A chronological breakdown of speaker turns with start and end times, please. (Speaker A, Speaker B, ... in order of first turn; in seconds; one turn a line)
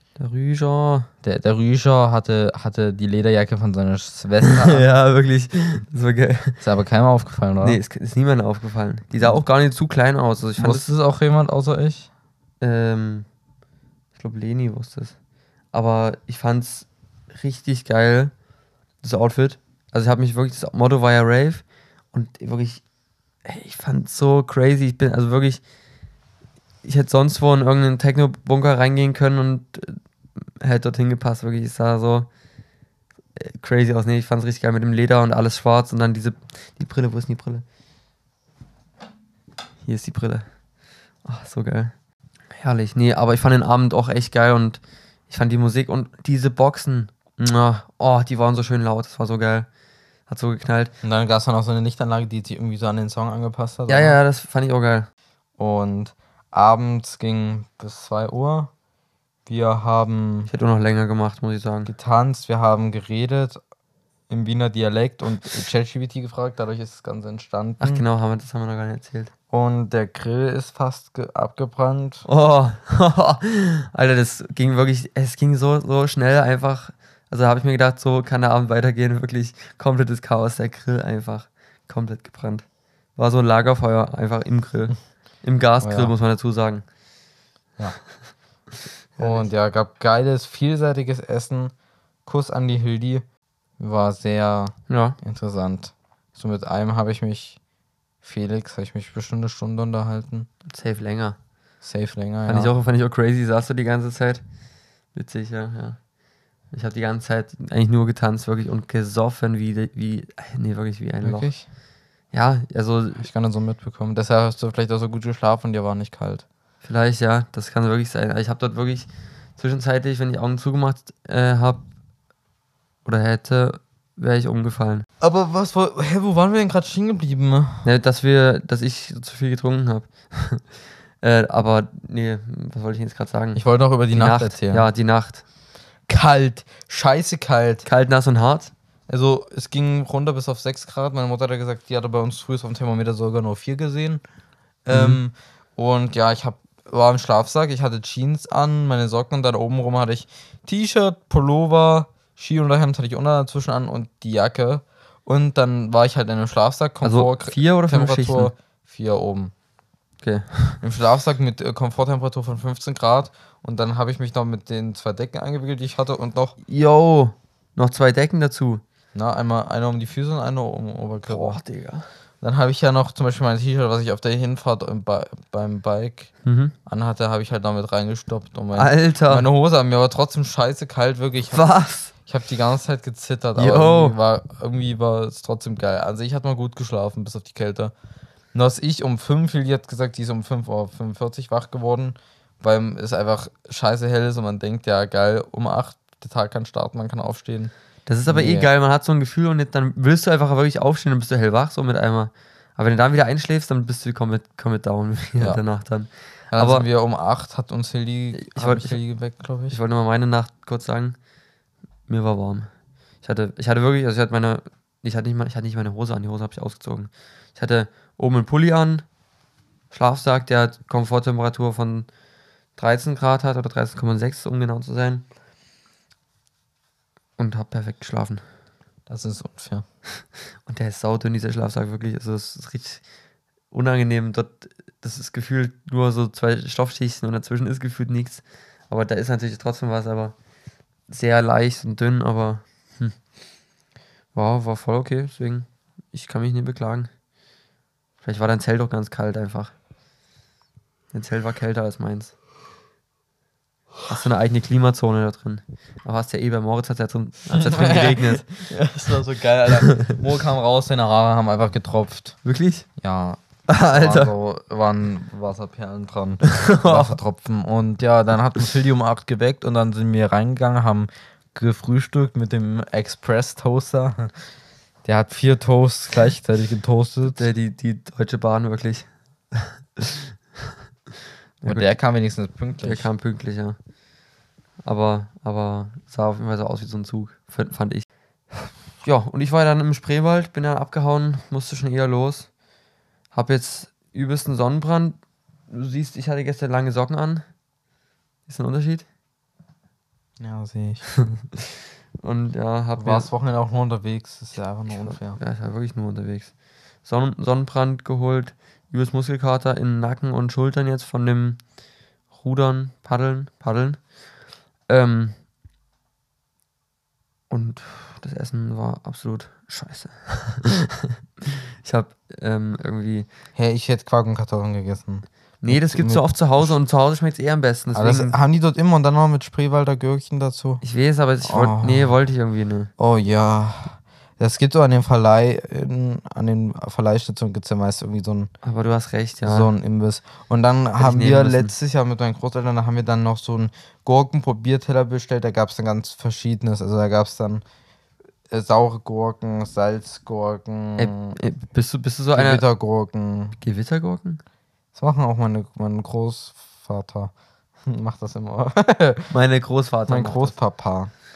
Speaker A: 0.2-1.1
Speaker B: 1.2-4.8
Speaker A: 4.5-6.6
Speaker B: 6.6-7.8
Speaker A: 7.6-10.9
Speaker B: 10.6-12.1
Speaker A: 12.6-13.3
Speaker A: 14.1-26.1
Speaker A: 26.8-32.3
Speaker A: 33.4-37.6
Speaker A: 39.8-42.0
Speaker A: 42.5-49.7
Speaker A: 50.2-50.9
Speaker B: 51.0-54.2
Speaker A: 53.9-55.1
Speaker B: 55.6-58.7
Speaker B: 59.5-60.5
Speaker A: 60.5-61.9
Speaker B: 61.9-63.6
Speaker B: 64.3-68.0
Speaker A: 67.8-69.3
Speaker B: 69.5-72.2
Speaker A: 72.2-86.9
Speaker B: 85.8-86.1
Speaker B: 87.8-88.2
Speaker A: 89.2-89.5
Speaker B: 89.2-97.6
Speaker A: 94.9-95.2
Speaker B: 98.2-100.5
Speaker A: 100.7-101.4
Speaker B: 101.8-102.7
Speaker A: 102.5-113.2
Speaker B: 111.2-111.7
Speaker B: 113.2-116.4
Speaker A: 116.8-121.9
Speaker A: 123.0-125.0
Speaker B: 125.2-127.9
Speaker A: 127.8-135.4
Speaker B: 133.5-134.9
Speaker B: 136.1-137.8
Speaker A: 137.8-138.7
Speaker B: 139.1-144.2
Speaker B: 144.8-159.5
Speaker A: 144.9-145.2
Speaker A: 157.0-158.5
Speaker A: 160.2-160.8
Speaker B: 160.8-166.6
Speaker A: 166.6-168.8
Speaker B: 169.1-171.6
Speaker A: 171.3-172.1
Speaker B: 172.4-187.9
Speaker A: 176.4-176.7
Speaker A: 178.7-179.4
Speaker A: 181.5-182.1
Speaker A: 183.6-184.2
Speaker B: 188.5-198.7
Speaker A: 198.1-206.9
Speaker B: 205.4-209.8
Speaker A: 208.3-211.3
Speaker A: 212.1-219.1
Speaker A: 219.9-222.1
Speaker A: 222.7-225.2
Speaker A: 227.4-228.4
Speaker B: 229.1-229.8
Speaker A: 230.6-233.1
Speaker A: 233.7-240.4
Speaker A: 241.1-243.2
Speaker A: 244.3-247.1
Speaker A: 248.2-249.7
Speaker A: 251.1-252.3
Speaker A: 254.1-258.8
Speaker B: 257.5-262.4
Speaker A: 262.4-263.0
Speaker B: 262.9-274.5
Speaker A: 263.7-264.3
Speaker A: 266.5-267.2
Speaker B: 275.0-277.4
Speaker A: 277.3-279.7
Speaker A: 281.6-282.1
Speaker B: 281.6-283.1
Speaker A: 282.8-283.8
Speaker A: 284.8-292.6
Speaker A: 293.3-297.6
Speaker A: 298.4-299.1
Speaker B: 300.4-301.3
Speaker A: 302.2-303.3
Speaker B: 303.0-305.4
Speaker A: 304.9-315.4
Speaker A: 317.5-320.7
Speaker A: 321.8-323.3
Speaker B: 323.5-326.8
Speaker A: 325.6-328.4
Speaker B: 327.9-330.8
Speaker A: 330.8-332.9
Speaker B: 331.4-332.2
Speaker B: 333.0-338.5
Speaker A: 338.6-339.7
Speaker B: 339.4-347.6
Speaker A: 341.0-341.7
Speaker B: 348.5-351.4
Speaker A: 351.0-352.6
Speaker B: 352.3-353.6
Speaker A: 353.6-354.4
Speaker B: 354.9-359.4
Speaker A: 359.3-360.6
Speaker B: 360.1-361.2